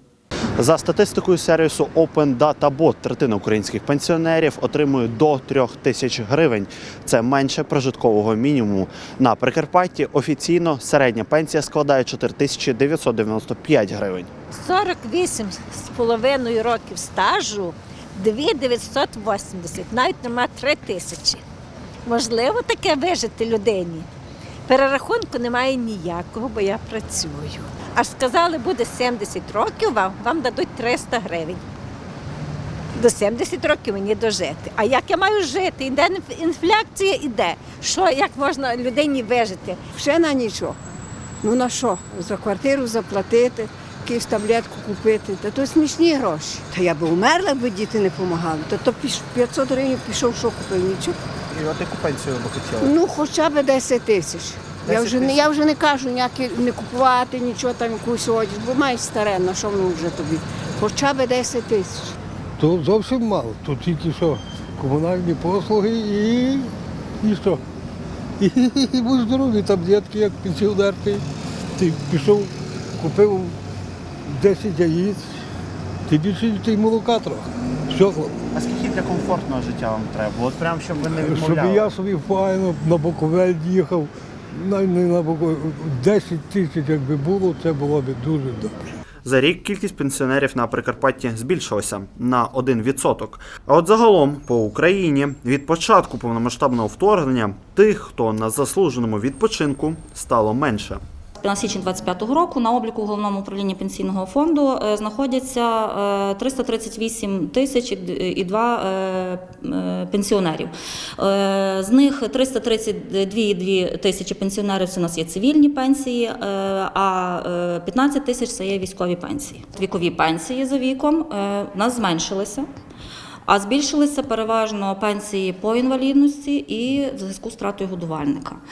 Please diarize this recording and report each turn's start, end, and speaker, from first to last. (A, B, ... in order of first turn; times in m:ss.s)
0:00.6-0:14.3 A
0:14.6-0:21.4 B
0:22.0-0:24.1 B
0:24.7-0:31.6 B
0:33.0-0:39.8 B
0:39.9-0:40.8 C
0:41.4-0:51.2 C
0:51.5-0:52.9 A
0:52.8-1:02.2 C
0:54.8-0:55.5 A
1:02.6-1:07.6 D
1:08.4-1:11.2 D
1:11.8-1:13.6 D
1:14.2-1:15.4 D
1:16.1-1:18.4 D
1:18.5-1:21.9 A
1:21.2-1:28.8 D
1:29.2-1:41.0 A
1:41.4-2:02.7 E
2:03.5-2:08.6 E